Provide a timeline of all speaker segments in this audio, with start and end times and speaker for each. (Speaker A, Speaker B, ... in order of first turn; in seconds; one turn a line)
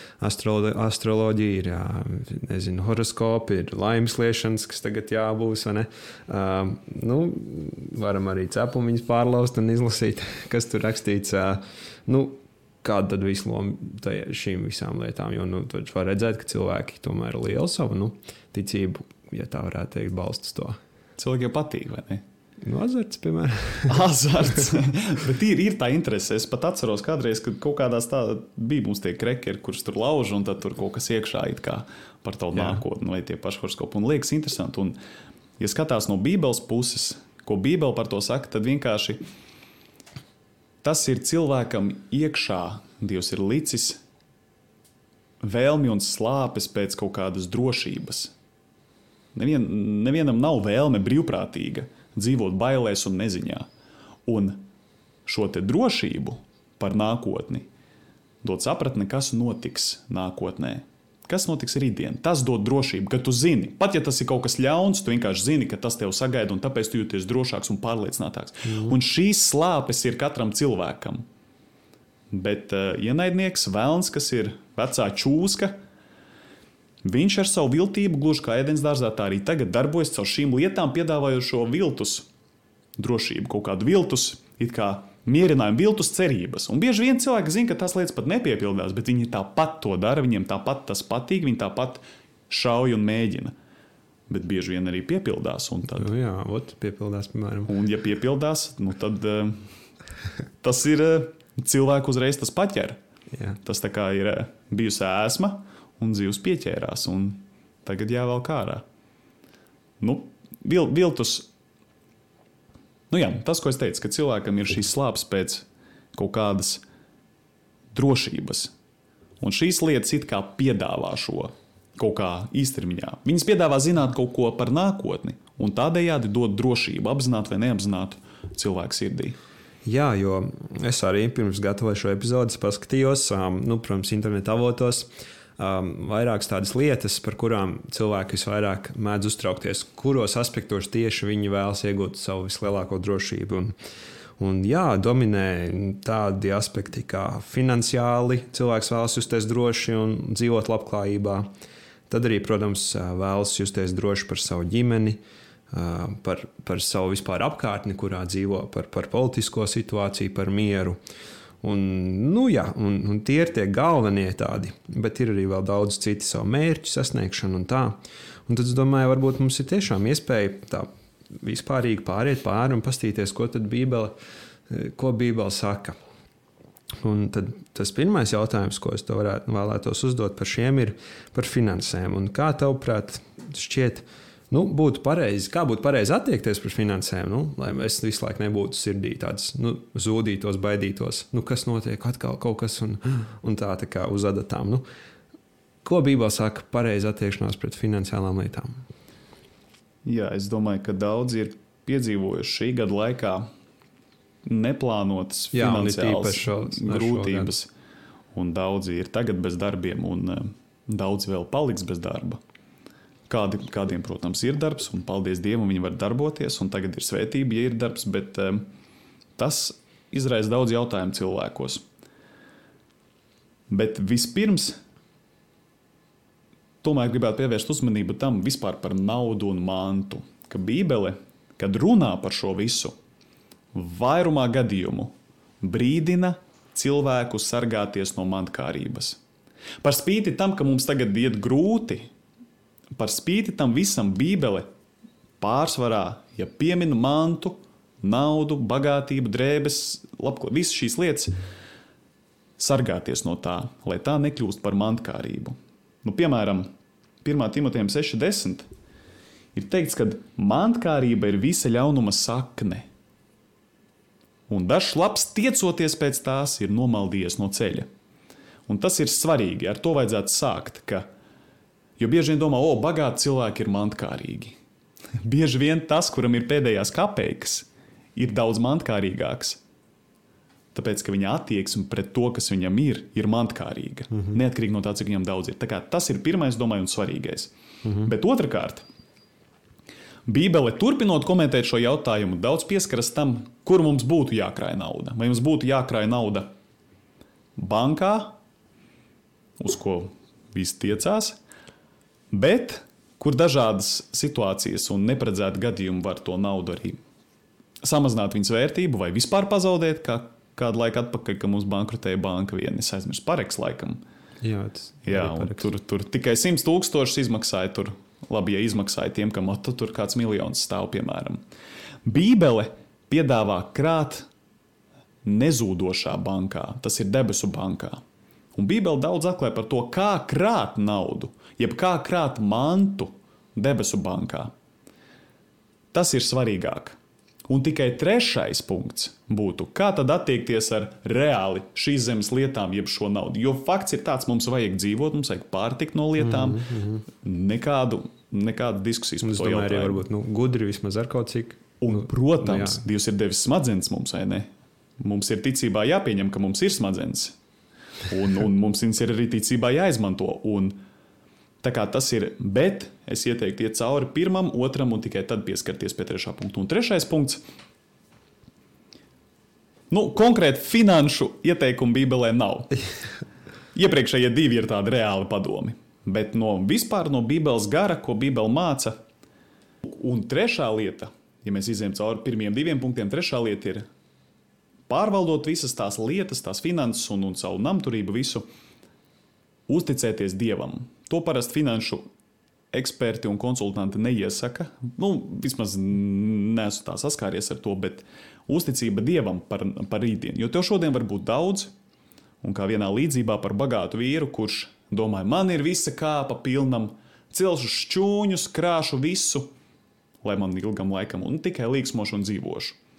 Speaker A: 0.2-20.8
Speaker B: 21.2-22.2
Speaker A: 22.6-24.0
Speaker B: 23.9-35.0
Speaker A: 32.5-32.8
Speaker B: 35.6-39.2
Speaker B: 40.8-44.0
Speaker B: 45.4-48.3
Speaker B: 49.3-53.6
Speaker B: 54.3-54.6
Speaker B: 55.2-57.7
Speaker B: 58.4-71.2
Speaker A: 68.7-69.0
Speaker B: 72.3-75.8
Speaker B: 77.0-82.3
Speaker B: 83.0-93.5
Speaker B: 94.3-96.1
Speaker A: 96.0-97.7
Speaker B: 97.7-99.6
Speaker B: 100.6-103.0
Speaker B: 103.6-108.8
Speaker B: 110.0-111.5
Speaker B: 113.1-116.8
Speaker B: 117.9-118.7
Speaker B: 119.4-129.3
Speaker A: 129.8-143.7
Speaker A: 144.4-151.5
Speaker A: 152.1-155.2
Speaker A: 155.7-161.0
Speaker A: 161.6-174.1
Speaker A: 174.7-176.0
Speaker A: 177.0-194.8
Speaker A: 195.8-198.8
Speaker B: 200.0-203.5
Speaker B: 204.4-207.7
Speaker A: 205.5-207.5
Speaker B: 208.3-212.4
Speaker B: 213.3-218.7
Speaker B: 219.4-221.8
Speaker B: 223.7-224.8
Speaker B: 226.8-232.9
Speaker B: 233.7-239.2
Speaker B: 239.8-242.1
Speaker B: 243.0-244.7
Speaker B: 245.4-251.3
Speaker B: 252.6-256.7
Speaker B: 257.2-258.7
Speaker B: 259.5-262.9
Speaker B: 264.5-267.9
Speaker B: 268.7-271.1
Speaker B: 272.0-274.6
Speaker B: 275.2-279.6
Speaker B: 280.7-288.9
Speaker B: 290.2-296.5
Speaker B: 297.6-298.4
Speaker B: 299.6-301.4
Speaker B: 302.3-307.0
Speaker B: 307.8-314.0
Speaker A: 314.4-315.7
Speaker B: 315.0-321.4
Speaker B: 322.1-324.3
Speaker B: 325.2-328.0
Speaker B: 328.5-334.5
Speaker B: 335.9-350.0
Speaker A: 346.2-347.0
Speaker A: 349.2-352.8
Speaker B: 351.8-357.4
Speaker B: 358.1-360.8
Speaker B: 361.6-367.4
Speaker B: 369.9-372.8
Speaker B: 373.7-379.0
Speaker B: 379.9-383.9
Speaker B: 384.9-388.4
Speaker B: 389.7-392.1
Speaker B: 392.7-401.7
Speaker B: 402.4-409.5
Speaker B: 410.2-412.8